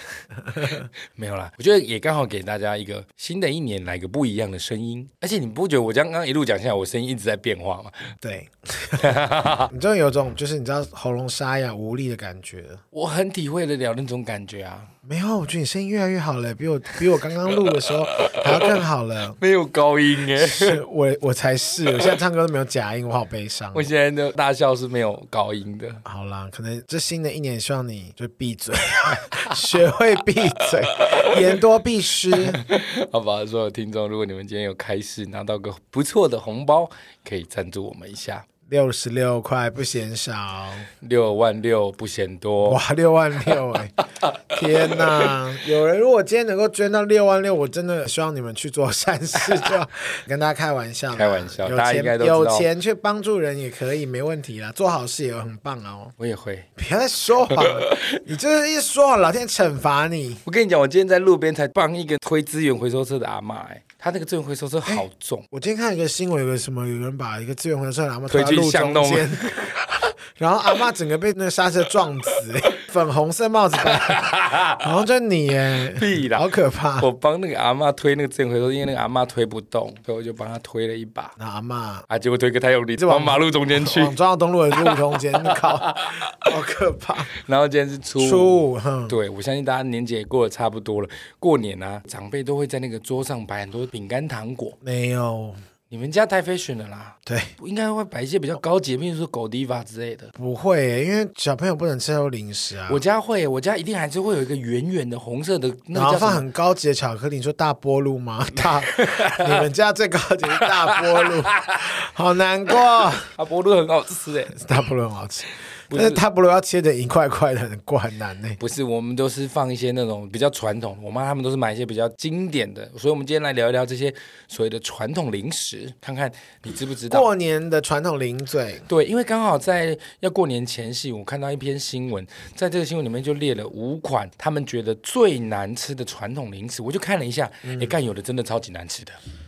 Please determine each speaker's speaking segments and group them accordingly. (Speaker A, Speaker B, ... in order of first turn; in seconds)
Speaker A: 0.3-0.9, 8.2-12.8, 15.0-19.4, 20.4-23.9, 26.1-32.6, 38.7-40.9, 42.6-43.9, 44.5-56.1, 56.8-60.4, 64.8-77.1, 81.4-82.0, 83.0-87.3, 88.2-89.2, 94.8-95.6, 97.2-97.5, 100.3-103.0, 105.9-113.3, 114.5-118.6, 127.1-128.8, 137.6-137.9
Speaker B: 1.1-8.1, 9.0-9.7, 12.9-14.9, 17.5-18.8, 19.4-20.8, 23.7-26.0, 29.3-29.6, 30.6-31.6, 32.3-38.5, 41.0-42.8, 44.2-45.3, 51.1-52.7, 56.2-56.7, 57.5-58.2, 60.4-65.5, 68.3-69.8, 73.8-74.9, 75.9-81.3, 82.1-84.1, 84.7-86.5, 87.3-94.8, 95.9-100.3, 102.9-106.4, 108.9-109.6, 110.6-111.9, 113.3-114.6, 115.9-116.2, 118.6-127.3, 128.9-139.2